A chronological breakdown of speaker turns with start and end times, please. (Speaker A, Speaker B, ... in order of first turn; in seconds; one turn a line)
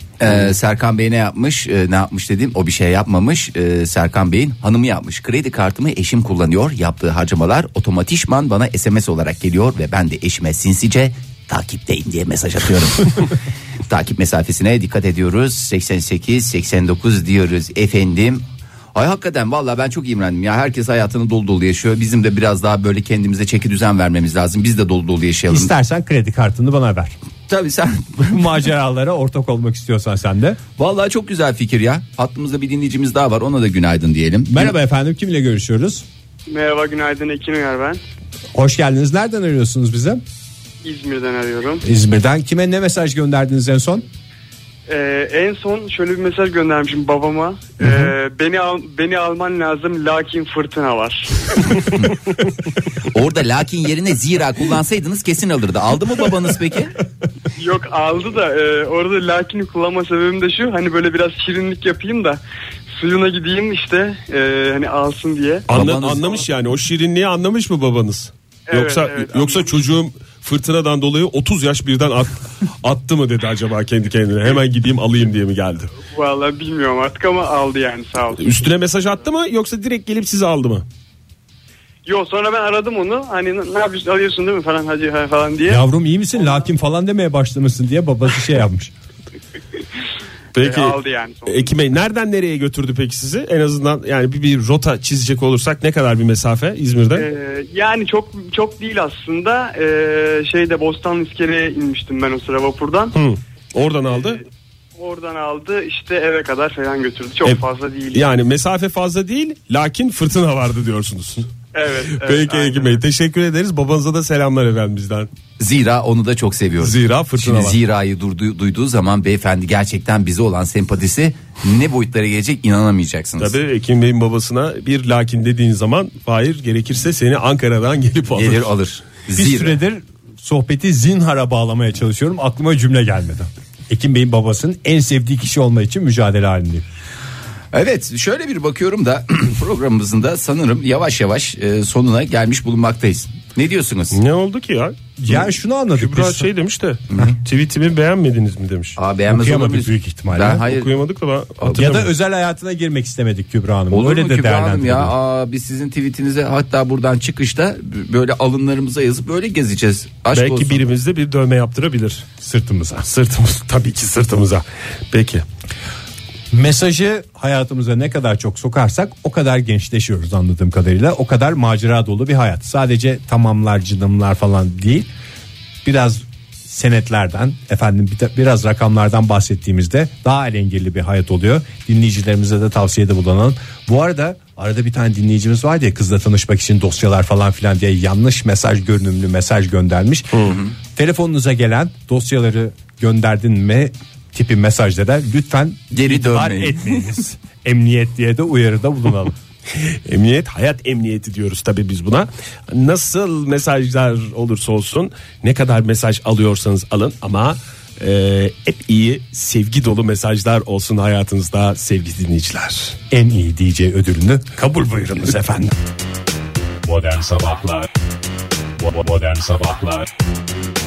Speaker A: 0.2-13.2
Speaker A: 13.9-18.4
Speaker A: 18.9-25.7
Speaker B: 25.5-27.1
Speaker A: 27.5-28.5
Speaker B: 28.2-30.6
Speaker A: 30.8-34.7
Speaker B: 34.5-36.0
Speaker C: 36.5-38.0
Speaker B: 38.5-40.2
Speaker C: 40.8-41.8
Speaker B: 41.8-44.0
Speaker C: 44.9-51.3
Speaker A: 53.1-56.9
Speaker C: 57.5-62.4
Speaker C: 62.9-65.7
Speaker D: 65.7-75.9
Speaker A: 65.7-66.4
Speaker C: 68.7-69.7
Speaker C: 76.1-78.5
Speaker D: 78.4-80.8
Speaker C: 82.0-85.8
Speaker B: 85.7-88.9
Speaker D: 90.5-97.3
Speaker C: 90.6-91.8
Speaker C: 97.2-103.1
Speaker D: 103.1-104.4
Speaker C: 105.0-108.2
Speaker D: 108.1-111.5
Speaker C: 111.7-113.0
Speaker D: 112.2-115.3
Speaker A: 115.6-123.6
Speaker D: 116.8-117.8
Speaker D: 123.4-128.7
Speaker A: 128.3-129.8
Speaker B: 129.3-136.8
Speaker A: 137.7-144.2
Speaker D: 144.1-145.4
Speaker B: 145.2-146.5
Speaker D: 145.9-149.0
Speaker A: 148.9-150.9
Speaker B: 149.3-150.6
Speaker D: 150.6-152.1
Speaker B: 151.6-155.1
Speaker A: 153.9-160.8
Speaker D: 160.3-162.3
Speaker B: 162.4-163.1
Speaker D: 163.0-165.4
Speaker B: 166.5-175.1
Speaker B: 175.8-199.3
Speaker A: 195.9-197.1
Speaker D: 199.7-213.0
Speaker B: 213.1-215.7
Speaker E: 216.8-217.9
Speaker E: 218.8-220.1